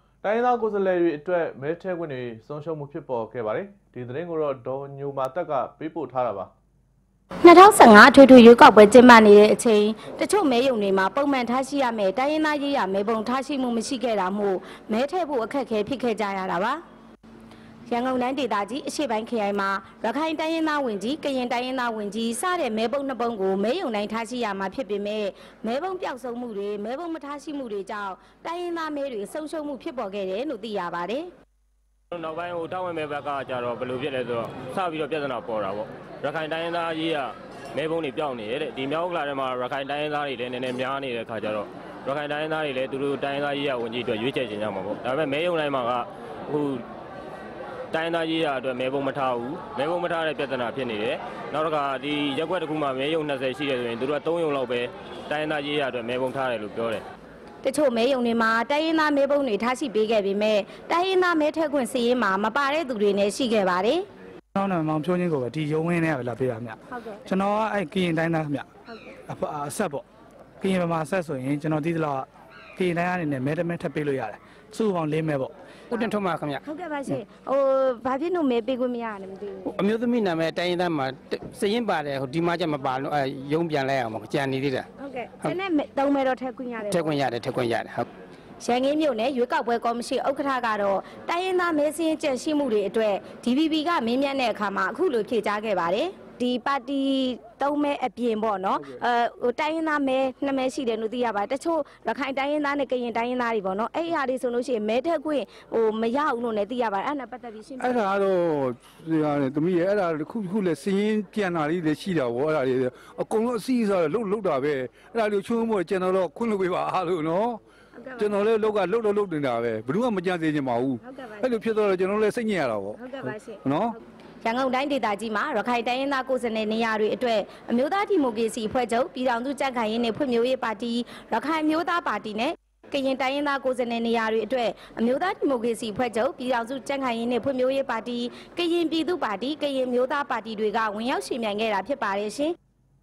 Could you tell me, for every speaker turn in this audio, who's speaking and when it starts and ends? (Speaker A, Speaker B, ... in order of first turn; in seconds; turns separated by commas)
Speaker A: 0.2-6.5, Speaker B: 7.4-16.8, Speaker B: 17.9-31.3, Speaker C: 32.1-46.8, Speaker C: 47.9-57.0, Speaker B: 57.6-64.0, Speaker D: 64.5-68.7, Speaker B: 66.9-67.2, Speaker D: 69.3-70.0, Speaker D: 70.6-75.5, Speaker E: 75.9-77.2, Speaker B: 76.6-79.7, Speaker E: 79.7-84.9, Speaker B: 85.0-87.3, Speaker E: 86.9-88.1, Speaker B: 88.6-108.1, Speaker F: 107.8-117.6, Speaker B: 118.0-118.4, Speaker F: 118.2-124.0, Speaker B: 121.0-121.6, Speaker B: 123.0-123.6, Speaker B: 124.4-142.5